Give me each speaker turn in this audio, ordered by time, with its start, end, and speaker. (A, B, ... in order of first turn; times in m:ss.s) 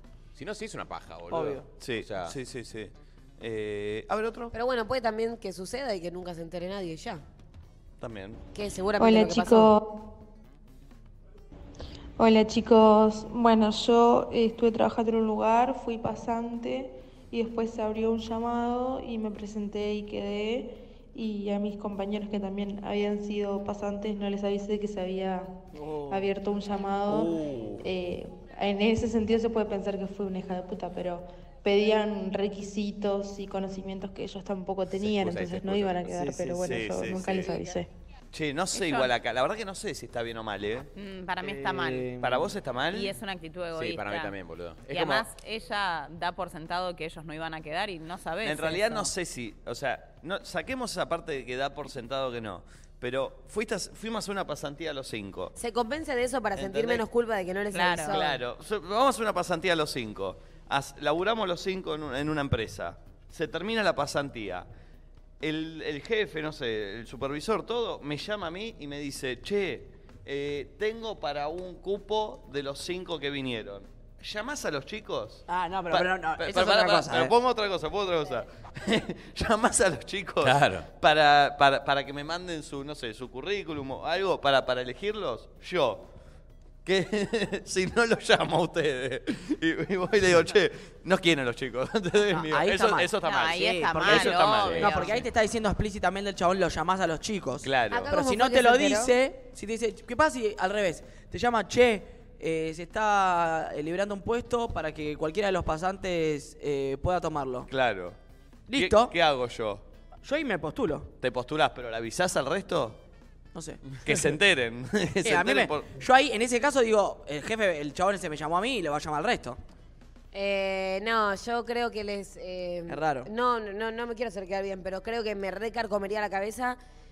0:00.4-0:02.4 A
0:01.3-0:01.6 B
0:01.8-0:04.5 C
0:04.5-0:07.2 D
0:08.0-0:08.4 C
0:08.5-0:09.7 D
0:09.0-0:09.8 E
0:12.2-0:25.5 E
0:26.1-0:37.9 E
0:34.9-0:36.3 A
0:36.6-0:37.6 C
0:38.3-0:40.9 C
0:38.7-0:39.1 F
0:41.0-0:42.1 F
0:41.9-0:42.1 B
0:42.2-0:43.2 C
0:42.9-0:44.4 F
0:43.7-0:45.3 A
0:44.9-0:49.1 F
0:48.4-0:55.5 C
0:55.6-0:58.4 D
0:56.6-0:57.0 C
0:57.7-0:58.2 F
0:58.0-1:04.7 C
1:05.4-1:26.0 C
1:15.5-1:17.3 B
1:20.4-1:20.9 A
1:26.8-1:34.9 C
1:32.4-1:47.7 B
1:33.2-1:35.3 F
1:34.5-1:34.9 A
1:37.6-1:38.1 C
1:37.9-1:39.1 D
1:47.7-1:48.2 C
1:48.7-1:49.1 B
1:48.8-1:49.8 C
1:50.2-1:51.1 B
1:51.2-1:53.0 C
1:53.5-1:54.2 B
1:54.0-1:55.9 C
1:55.2-1:59.6 B
2:00.3-2:06.8 D
2:02.9-2:03.3 B